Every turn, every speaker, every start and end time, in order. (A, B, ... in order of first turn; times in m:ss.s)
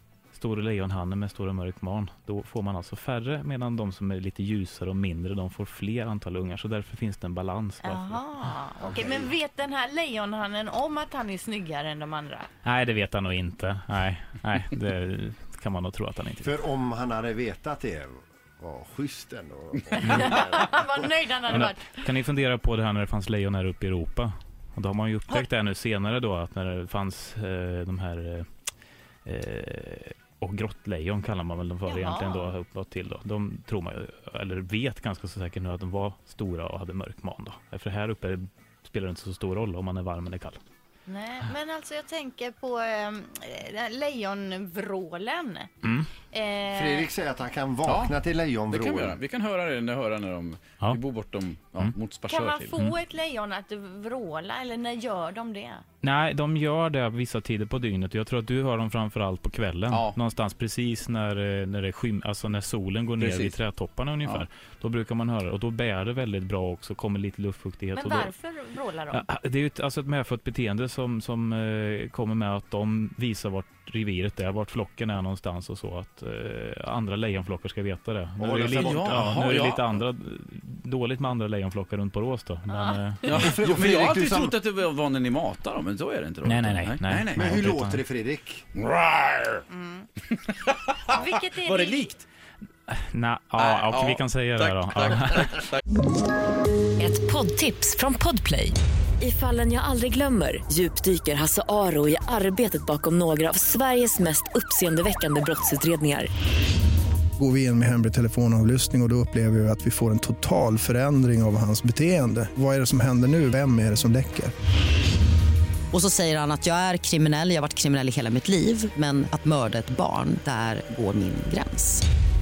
0:00.3-0:08.3 A
0:07.8-0:12.5 B
0:08.8-0:09.3 C
0:12.6-0:16.6 A
0:16.4-0:20.8 C
0:19.9-0:22.0 B
0:21.5-0:28.5 A
0:29.3-0:40.6 A
0:31.9-0:32.5 B
0:41.1-0:45.7 B
0:45.8-0:46.1 A
0:46.3-0:47.1 B
0:46.7-0:49.2 C
0:47.9-0:48.2 D
0:48.7-0:52.7 D
0:52.3-0:55.8 B
0:56.0-1:08.3 A
0:59.9-1:00.2 D
1:03.2-1:03.6 D
1:07.9-1:09.2 B
1:09.1-1:23.6 A
1:18.4-1:19.4 C
1:18.7-1:19.8 D
1:22.7-1:23.4 B
1:23.3-1:27.4 D
1:23.3-1:24.6 C
1:26.4-1:28.0 A
1:27.3-1:28.7 C
1:28.8-1:29.6 D
1:29.7-1:30.1 B
1:31.0-1:32.1 B
1:31.6-1:32.2 D
1:32.9-1:35.7 A
1:33.6-1:35.8 D
1:37.0-1:46.3 E
1:47.4-1:54.5 F
1:55.9-2:02.0 G